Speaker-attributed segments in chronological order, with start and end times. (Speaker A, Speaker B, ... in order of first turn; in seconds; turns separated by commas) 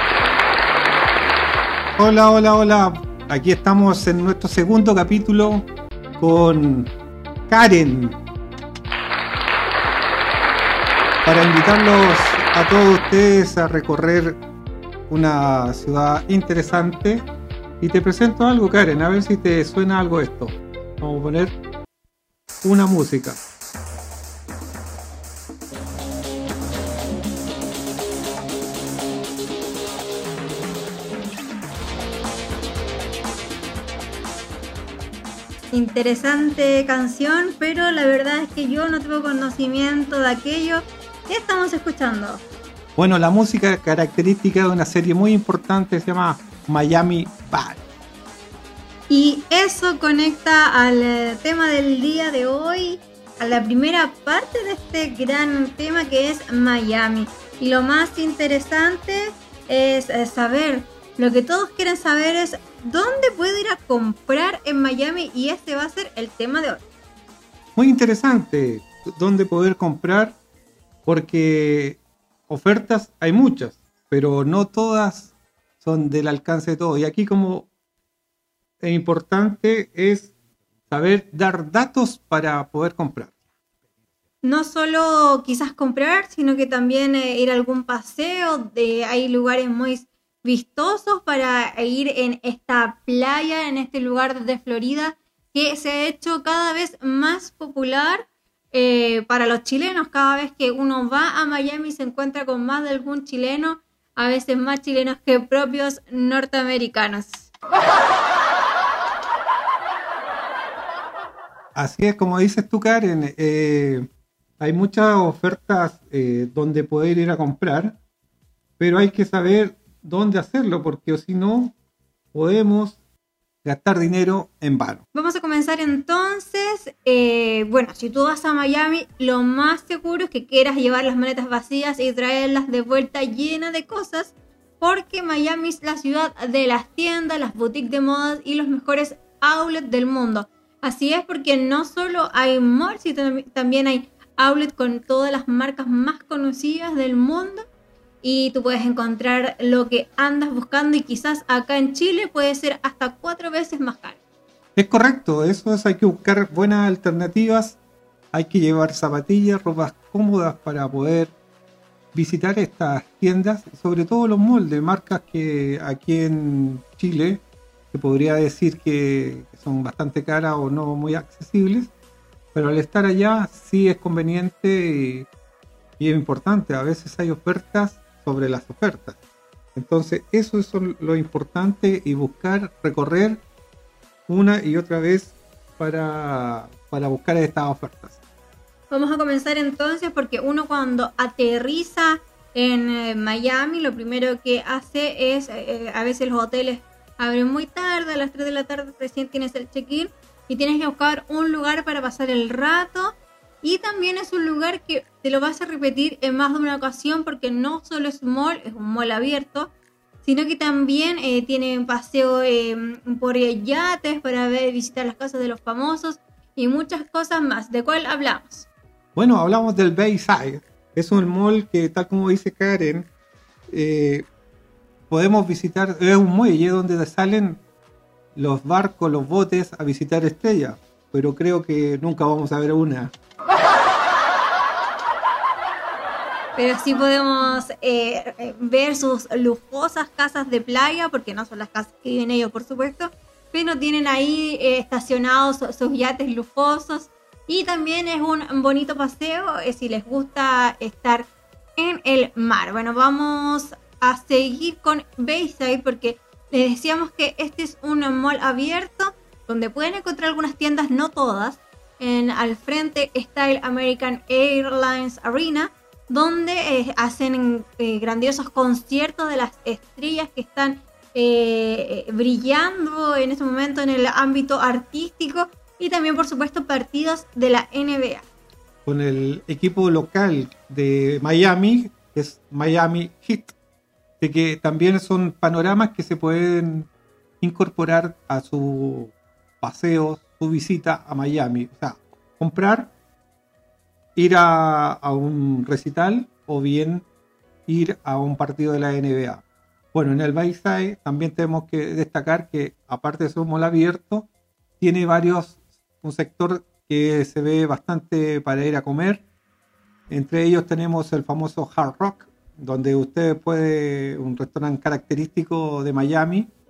Speaker A: 2.0-5.7, Speaker A: 6.2-6.9, Speaker A: 7.5-8.2, Speaker A: 11.2-14.4, Speaker A: 15.1-17.3, Speaker A: 17.8-21.6, Speaker A: 22.6-23.4, Speaker B: 35.7-42.4, Speaker A: 43.0-47.8, Speaker B: 49.1-66.8, Speaker A: 67.8-70.4, Speaker A: 71.0-77.7, Speaker A: 78.8-80.3, Speaker A: 80.9-83.3, Speaker B: 84.4-107.5, Speaker A: 111.7-114.1, Speaker A: 114.6-118.0, Speaker A: 118.8-121.7, Speaker A: 122.3-123.0, Speaker A: 123.6-125.0, Speaker B: 125.1-147.7, Speaker B: 148.2-154.2, Speaker A: 154.8-157.8, Speaker A: 158.3-161.3, Speaker A: 162.1-171.9, Speaker A: 172.5-175.3, Speaker A: 176.0-179.2, Speaker A: 179.7-183.4, Speaker A: 184.3-188.2, Speaker B: 188.9-209.7, Speaker B: 210.2-218.7, Speaker A: 219.2-223.1, Speaker A: 223.7-224.2, Speaker A: 225.1-227.6, Speaker A: 228.3-233.1, Speaker B: 236.6-278.2, Speaker A: 278.9-283.5, Speaker A: 284.2-286.9, Speaker A: 287.4-292.9, Speaker A: 294.1-297.1, Speaker A: 297.7-304.3, Speaker A: 304.8-309.2, Speaker A: 310.1-316.5